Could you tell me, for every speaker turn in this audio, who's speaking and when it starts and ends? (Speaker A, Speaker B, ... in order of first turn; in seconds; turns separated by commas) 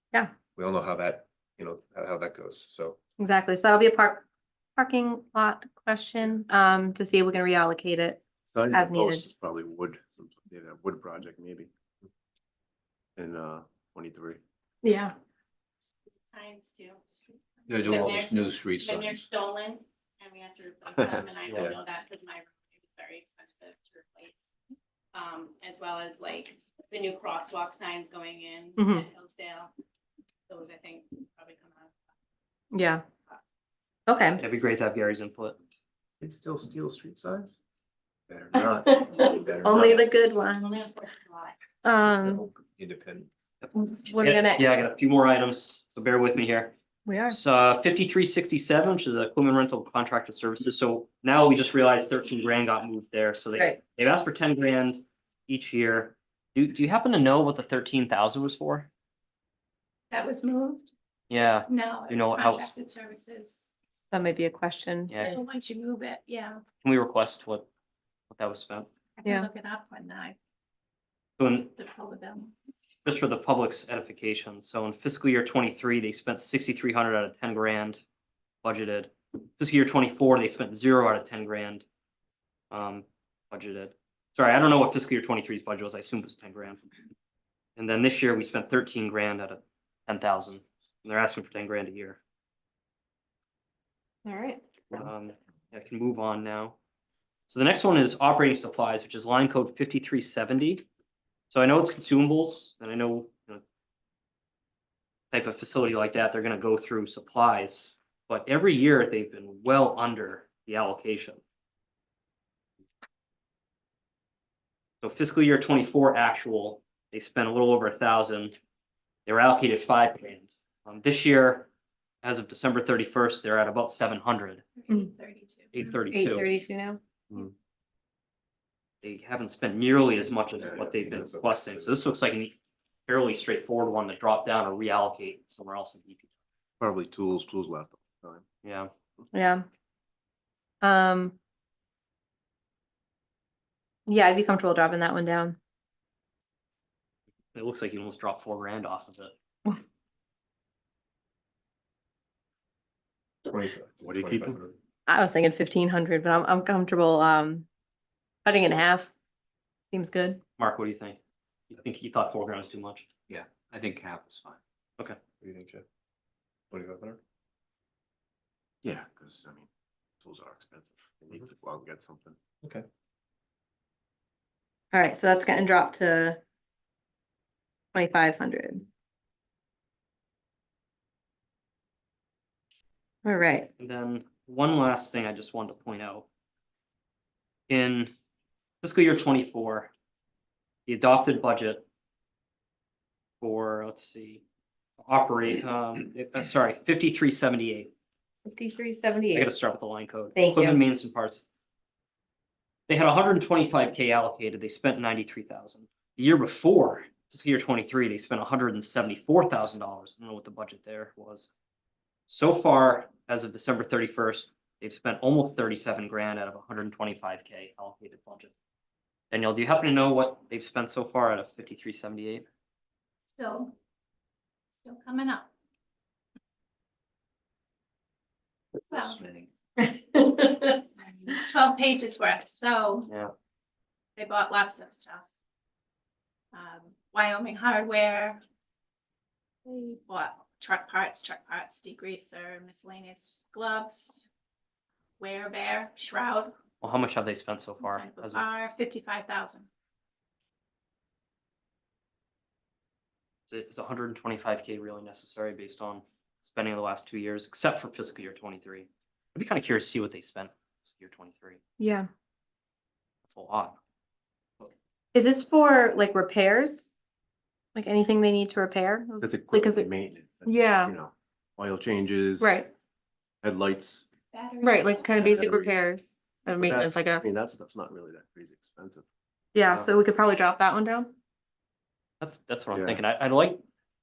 Speaker A: 0.6-3.0, Speaker B: 3.2-4.3, Speaker B: 4.8-9.3, Speaker C: 8.5-11.7, Speaker C: 13.2-14.4, Speaker B: 14.8-15.1, Speaker D: 16.3-24.5, Speaker E: 17.7-19.3, Speaker C: 21.0-21.8, Speaker F: 21.5-21.7, Speaker D: 25.1-29.7, Speaker B: 28.8-29.0, Speaker D: 30.5-31.9, Speaker B: 32.7-33.0, Speaker B: 34.1-34.4, Speaker F: 34.4-35.6, Speaker A: 36.2-37.6, Speaker A: 38.3-40.1, Speaker B: 38.7-40.8, Speaker D: 40.5-41.5, Speaker B: 41.9-42.4, Speaker A: 42.0-43.4, Speaker F: 43.6-46.8, Speaker B: 43.8-44.7, Speaker B: 47.1-47.4, Speaker F: 47.3-58.9, Speaker D: 60.1-60.9, Speaker F: 61.3-62.7, Speaker D: 61.7-63.8, Speaker B: 64.1-65.3, Speaker D: 65.2-66.6, Speaker F: 66.8-67.7, Speaker F: 68.3-68.9, Speaker D: 69.2-70.4, Speaker F: 71.4-71.7, Speaker D: 71.7-72.5, Speaker F: 73.0-78.0, Speaker F: 78.6-81.8, Speaker F: 82.7-86.8, Speaker F: 87.8-92.2, Speaker B: 94.2-94.6, Speaker F: 94.9-96.8, Speaker F: 97.5-100.8, Speaker F: 101.5-103.6, Speaker F: 105.3-111.4, Speaker F: 115.0-118.5, Speaker F: 119.3-121.7, Speaker F: 122.2-124.6, Speaker D: 124.8-125.9, Speaker F: 125.7-126.5, Speaker B: 126.1-127.0, Speaker F: 129.0-132.6, Speaker A: 130.7-131.9, Speaker F: 133.1-136.3, Speaker C: 136.8-138.4, Speaker F: 138.6-138.9, Speaker B: 139.3-139.7, Speaker B: 140.8-141.4, Speaker B: 144.1-145.6, Speaker F: 147.5-149.3, Speaker A: 153.4-154.8, Speaker C: 154.0-154.6, Speaker B: 155.1-157.7, Speaker B: 158.4-159.1, Speaker B: 159.9-160.4, Speaker F: 160.6-163.1, Speaker E: 163.3-164.6, Speaker A: 165.4-165.8, Speaker A: 166.7-167.2, Speaker C: 168.8-169.7, Speaker C: 170.2-172.4, Speaker B: 174.9-176.4, Speaker B: 177.9-178.8, Speaker B: 183.2-183.7, Speaker F: 183.8-186.3, Speaker F: 187.7-188.1, Speaker F: 188.8-189.9, Speaker F: 190.9-191.8, Speaker F: 193.4-194.4, Speaker F: 195.0-197.9, Speaker B: 198.5-199.5, Speaker F: 199.3-201.4, Speaker B: 200.3-200.8, Speaker F: 202.9-211.5, Speaker F: 212.3-218.5, Speaker F: 219.3-222.4, Speaker D: 223.3-223.7, Speaker D: 224.8-225.5, Speaker D: 228.9-229.2, Speaker E: 229.1-229.5, Speaker B: 229.9-230.8, Speaker D: 231.2-233.1, Speaker D: 234.2-235.2, Speaker D: 236.5-238.4, Speaker D: 239.7-244.3, Speaker D: 245.2-246.5, Speaker F: 246.8-248.4, Speaker D: 247.8-249.7, Speaker F: 253.5-261.6, Speaker B: 261.8-262.1, Speaker F: 263.2-263.8, Speaker B: 265.1-266.9, Speaker B: 267.8-269.9, Speaker C: 269.2-272.6, Speaker B: 270.4-270.9, Speaker B: 272.4-272.7, Speaker C: 273.4-274.1, Speaker D: 274.3-275.5, Speaker B: 274.6-277.3, Speaker C: 275.2-275.7, Speaker C: 276.6-279.1, Speaker B: 279.5-281.1, Speaker F: 282.2-283.6, Speaker C: 282.7-283.0